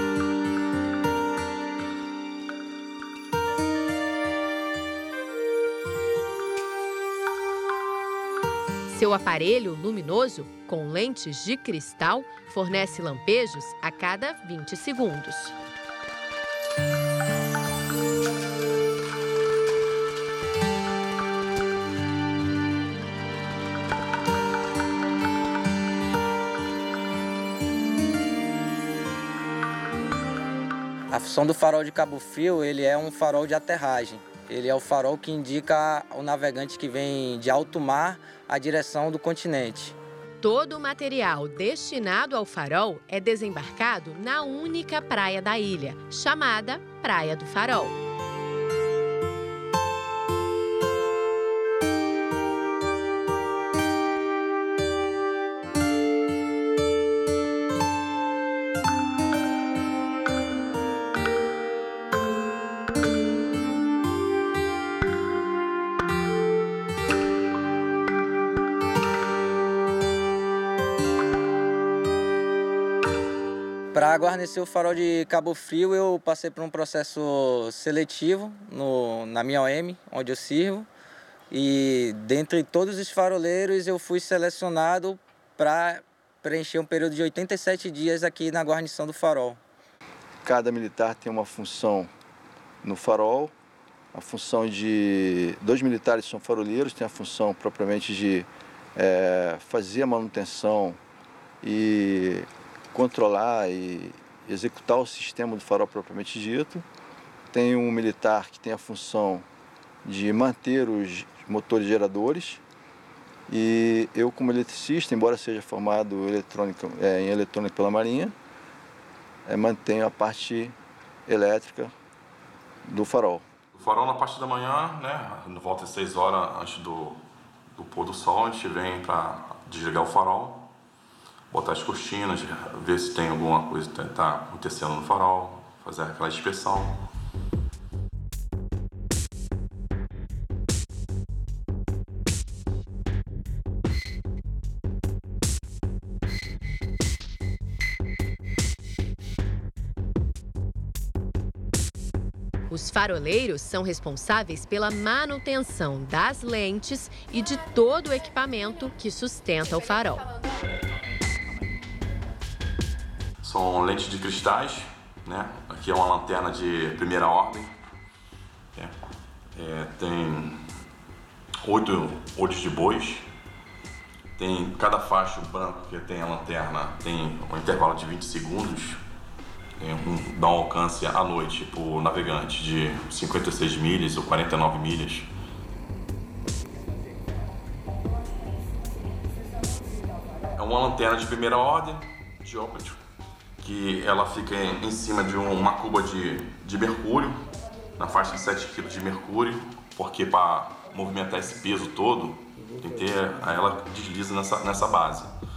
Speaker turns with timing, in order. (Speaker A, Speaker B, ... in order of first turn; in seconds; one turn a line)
Speaker A: 8.9-15.6
Speaker B: 31.1-39.9
Speaker A: 40.4-48.0
Speaker B: 73.9-80.9
Speaker B: 81.5-89.6
Speaker C: 90.4-92.1
Speaker C: 92.8-93.5
Speaker C: 94.1-101.0
Speaker C: 101.6-106.8
Speaker C: 107.5-109.4
Speaker C: 110.0-112.6
Speaker C: 113.5-118.3
Speaker C: 119.5-120.7
Speaker C: 121.3-121.9
Speaker C: 122.9-123.4
Speaker D: 123.7-127.2
Speaker D: 127.7-130.7
Speaker D: 131.5-137.0
Speaker A: 152.7-160.3
Speaker D: 163.4-167.7
Speaker D: 169.6-170.6
Speaker D: 171.6-173.2
Speaker D: 174.4-179.0
Speaker D: 179.8-185.3
Speaker D: 190.5-193.0
Speaker D: 193.6-197.4
Speaker D: 198.0-205.3